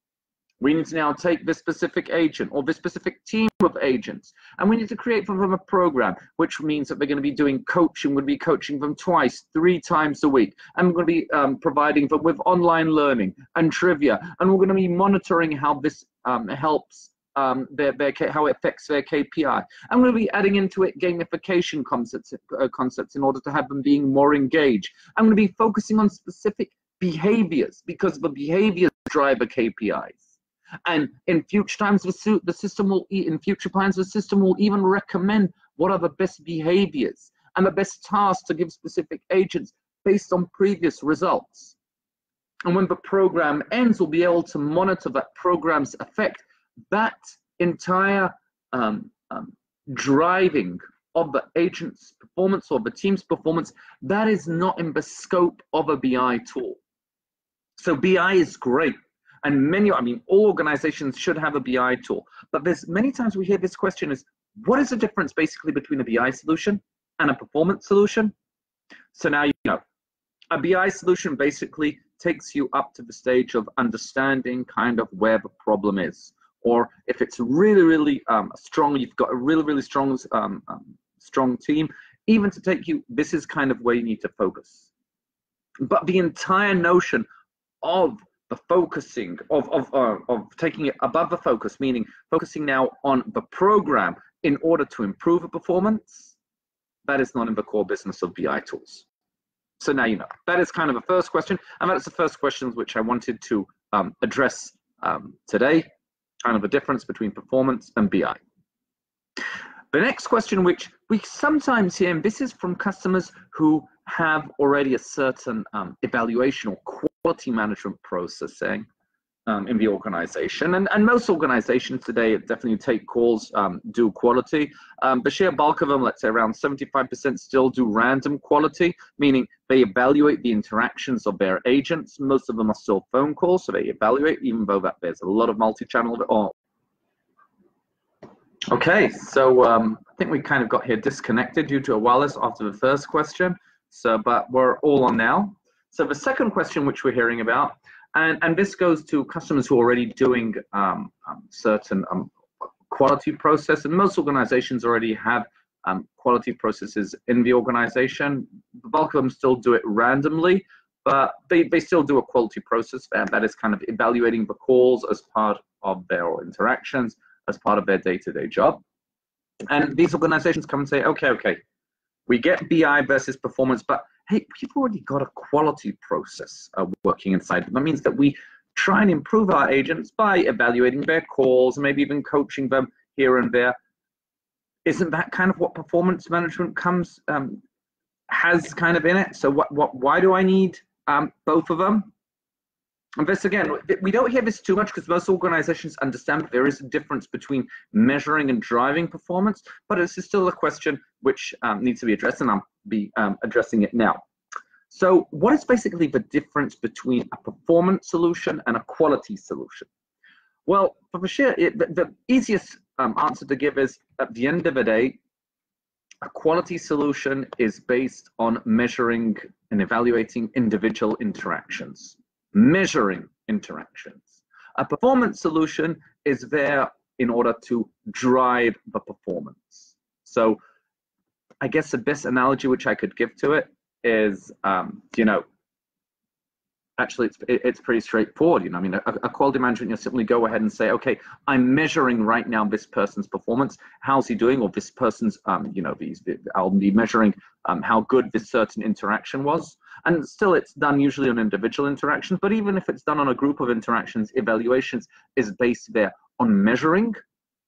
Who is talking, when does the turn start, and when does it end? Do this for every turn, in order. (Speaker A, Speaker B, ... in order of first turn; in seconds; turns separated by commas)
Speaker A: 0.6-41.8, Speaker A: 42.6-56.8, Speaker A: 57.8-68.3, Speaker A: 69.1-69.8, Speaker A: 70.5-84.9, Speaker A: 85.8-87.3, Speaker A: 87.8-96.3, Speaker A: 97.0-99.0, Speaker A: 99.8-105.9, Speaker A: 106.4-108.4, Speaker A: 109.9-118.9, Speaker A: 119.5-136.5, Speaker A: 138.7-168.8, Speaker A: 169.7-171.6, Speaker A: 172.3-183.8, Speaker A: 184.8-187.6, Speaker A: 188.3-192.1, Speaker A: 193.2-204.2, Speaker A: 204.9-209.9, Speaker A: 210.7-215.2, Speaker A: 216.2-230.6, Speaker A: 231.6-235.4, Speaker A: 237.0-257.2